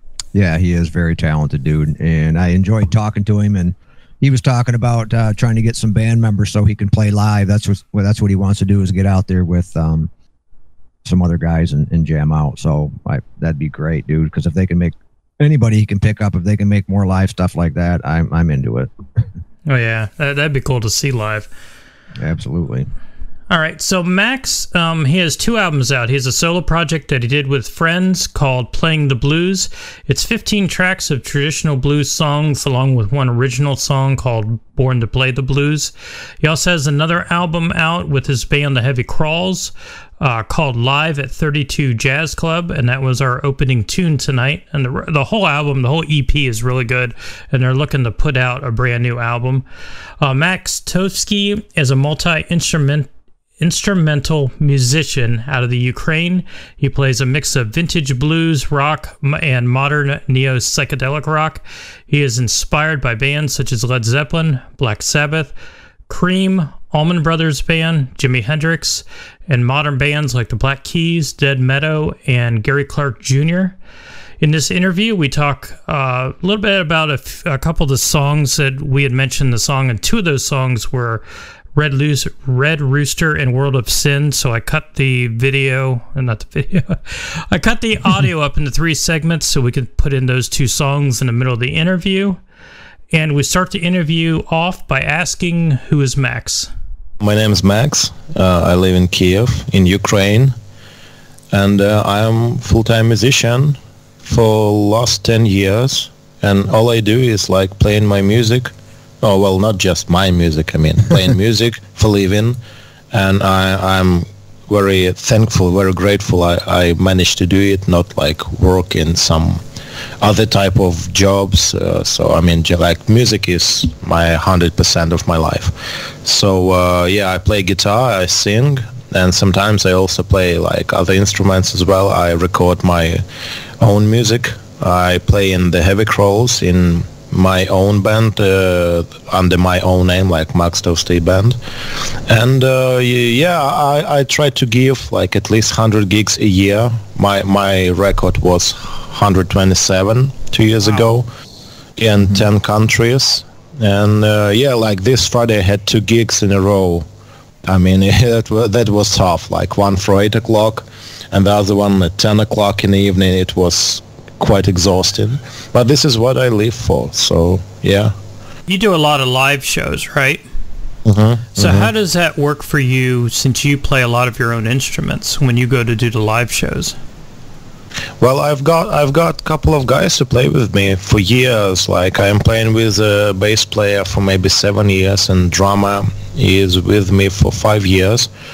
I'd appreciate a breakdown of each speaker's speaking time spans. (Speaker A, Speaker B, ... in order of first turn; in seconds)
Speaker A: 0.3-10.1, 11.0-18.9, 22.2-22.9
Speaker B: 19.7-21.5, 23.5-49.6, 50.2-65.5, 66.1-73.8, 74.4-81.2, 81.7-92.4, 93.1-96.7, 168.7-170.4, 171.6-176.9
Speaker C: 97.2-100.5, 101.5-112.6, 113.1-119.6, 120.2-133.2, 133.8-141.6, 142.3-151.3, 152.0-157.1, 157.6-168.1, 171.1-171.9, 178.2-188.3